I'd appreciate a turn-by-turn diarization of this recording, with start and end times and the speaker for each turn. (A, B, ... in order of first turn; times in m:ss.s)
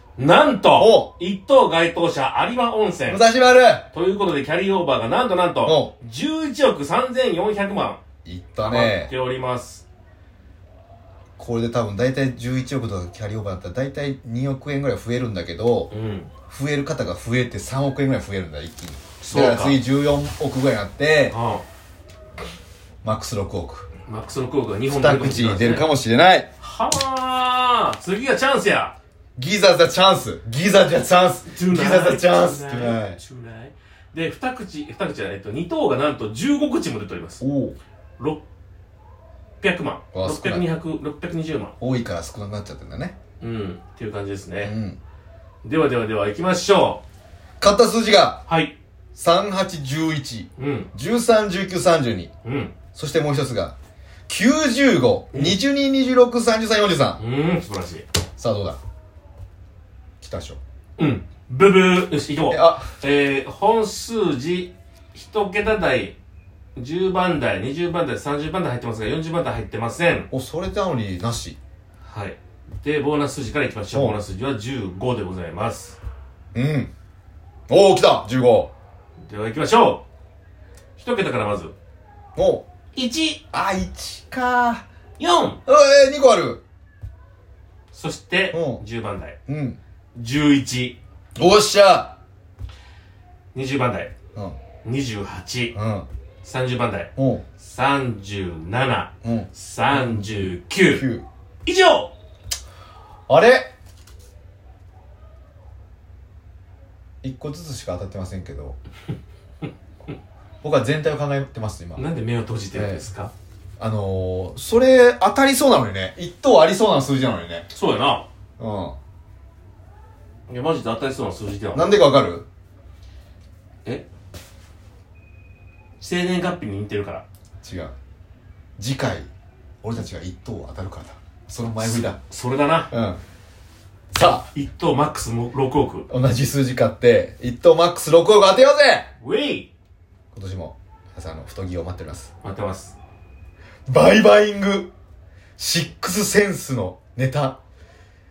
0:00.2-0:03.2 A
0:00.7-0:01.1 B
0:03.1-0:03.9 B
0:03.9-0:08.0 A
0:05.6-0:05.9 B
0:08.2-0:09.1 B
0:08.6-0:09.9 A
0:11.4-0:15.9 B
0:15.9-0:16.3 A
0:16.5-0:21.4 B
0:19.2-0:19.8 A
0:21.3-0:21.6 A
0:23.0-0:23.9 B
0:24.1-0:25.9 A
0:24.9-0:26.5 B
0:26.6-0:29.0 A
0:29.4-0:33.2 B
0:31.5-0:37.4 A
0:37.4-0:37.8 B
0:39.6-0:41.8 A
0:40.1-0:40.6 B
0:41.8-0:43.2 B
0:43.4-0:44.8 A
0:44.6-0:45.0 B
0:45.6-0:47.0 A
0:47.6-0:48.4 B
0:48.5-0:48.8 A
0:49.2-0:52.3 B
0:50.6-0:50.9 A
0:52.4-0:52.8 A
0:52.9-0:53.8 B
0:54.3-0:57.2 B
0:55.3-0:55.6 A
0:57.2-0:58.0 A
0:58.4-0:58.8 B
1:00.2-1:00.6 B
1:01.0-1:06.2 A
1:02.5-1:02.9 B
1:06.8-1:10.3 A
1:10.3-1:11.6 B
1:12.0-1:16.0 A
1:13.9-1:14.2 B
1:16.5-1:16.9 B
1:17.7-1:18.7 B
1:19.2-1:20.0 A
1:21.0-1:21.7 A
1:22.4-1:22.7 B
1:23.0-1:23.4 A
1:23.5-1:24.8 B
1:25.2-1:25.6 A
1:25.7-1:26.6 B
1:27.9-1:29.4 A
1:28.5-1:28.8 B
1:29.5-1:29.8 B
1:30.2-1:31.0 A
1:31.4-1:32.2 B
1:33.6-1:34.1 A
1:34.8-1:35.8 A
1:35.7-1:36.1 B
1:36.4-1:41.1 A
1:37.2-1:37.4 B
1:39.2-1:41.3 B
1:41.7-1:42.1 A
1:43.3-1:43.7 B
1:47.2-1:48.8 B
1:50.6-1:52.1 B
1:52.0-1:53.3 A
1:52.7-1:53.0 B
1:53.8-1:57.7 B
1:57.7-1:58.3 A
1:58.6-1:59.0 B
2:00.5-2:02.1 A
2:01.7-2:02.5 B
2:06.0-2:07.2 A
2:07.6-2:07.9 B
2:08.8-2:09.3 B
2:09.8-2:12.2 B
2:11.8-2:12.9 A
2:12.9-2:13.2 B
2:14.1-2:14.5 B
2:14.4-2:16.1 A
2:16.1-2:19.1 B
2:19.2-2:19.7 A
2:20.3-2:22.3 B
2:22.4-2:23.0 A
2:23.9-2:24.9 B
2:25.6-2:27.6 B